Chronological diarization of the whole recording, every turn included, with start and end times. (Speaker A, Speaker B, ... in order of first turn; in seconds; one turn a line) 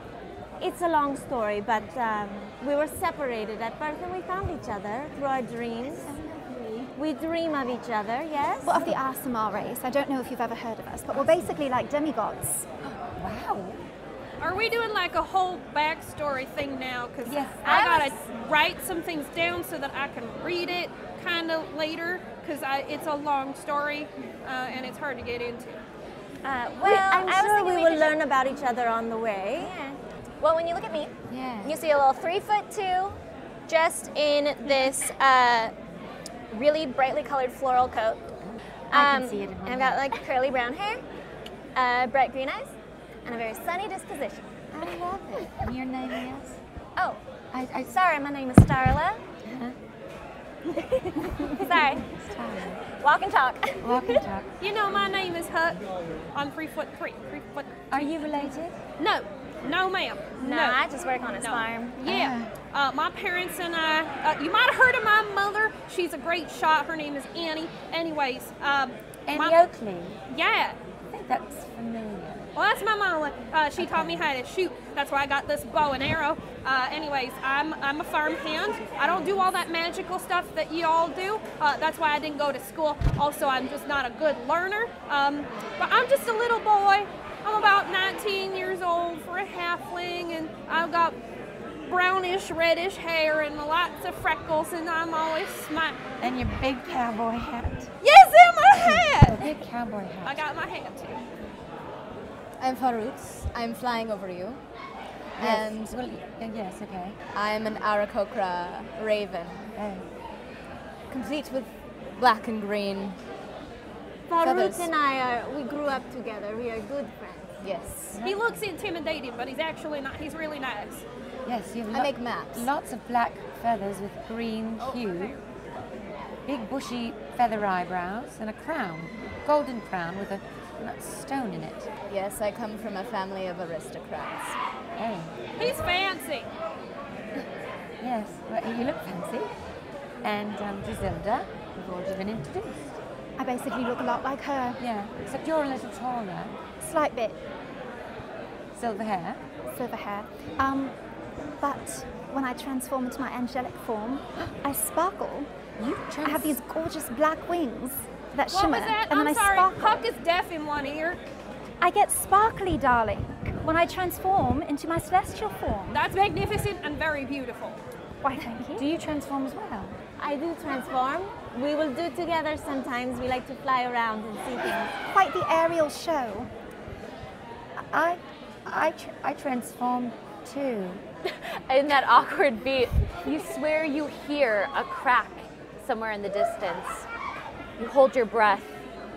Speaker A: 0.6-6.1
Speaker B: 6.2-6.9
Speaker A: 7.0-8.8
Speaker B: 8.6-12.7
Speaker C: 12.8-13.8
Speaker D: 14.4-25.8
Speaker C: 17.2-18.1
Speaker E: 26.4-28.1
Speaker A: 26.8-29.7
Speaker E: 29.6-35.7
Speaker C: 31.3-31.8
Speaker E: 36.5-38.2
Speaker C: 38.4-40.2
Speaker E: 38.9-41.0
Speaker E: 41.7-42.7
Speaker E: 43.2-44.5
Speaker C: 44.7-46.6
Speaker E: 47.0-47.2
Speaker C: 47.5-47.9
Speaker E: 47.9-49.2
Speaker C: 49.4-49.8
Speaker E: 50.7-52.1
Speaker C: 52.0-52.8
Speaker E: 52.9-54.2
Speaker C: 53.8-54.5
Speaker D: 54.6-55.8
Speaker D: 56.3-58.2
Speaker C: 57.9-58.8
Speaker D: 59.0-60.8
Speaker E: 60.4-62.0
Speaker D: 61.4-69.6
Speaker C: 62.0-62.5
Speaker C: 69.3-70.2
Speaker D: 70.3-70.8
Speaker C: 71.1-72.5
Speaker D: 72.5-91.2
Speaker C: 73.8-74.3
Speaker C: 78.7-79.5
Speaker D: 91.9-96.0
Speaker C: 96.2-97.9
Speaker D: 98.0-99.5
Speaker C: 98.7-100.4
Speaker D: 100.2-101.2
Speaker F: 102.6-104.6
Speaker C: 105.4-107.2
Speaker F: 105.4-106.0
Speaker F: 107.3-109.7
Speaker C: 109.7-110.0
Speaker F: 111.1-113.2
Speaker A: 114.3-117.6
Speaker F: 114.4-114.9
Speaker F: 117.6-118.2
Speaker C: 118.1-118.6
Speaker D: 118.2-121.0
Speaker C: 121.5-125.4
Speaker F: 121.9-122.7
Speaker D: 124.8-125.3
Speaker C: 126.5-131.9
Speaker F: 132.1-134.6
Speaker C: 135.0-135.4
Speaker D: 135.6-136.5
Speaker C: 138.0-139.6
Speaker C: 140.2-143.0
Speaker B: 143.4-144.8
Speaker C: 144.8-146.6
Speaker B: 146.8-147.4
Speaker C: 148.7-149.4
Speaker B: 149.7-150.9
Speaker B: 151.6-155.5
Speaker C: 155.8-156.6
Speaker B: 156.2-160.0
Speaker D: 158.5-161.2
Speaker B: 161.8-166.0
Speaker D: 165.9-167.8
Speaker B: 168.2-168.8
Speaker C: 168.7-170.0
Speaker A: 170.2-174.9
Speaker B: 175.0-176.5
Speaker C: 177.9-181.0
Speaker G: 181.2-187.1
Speaker G: 187.8-188.7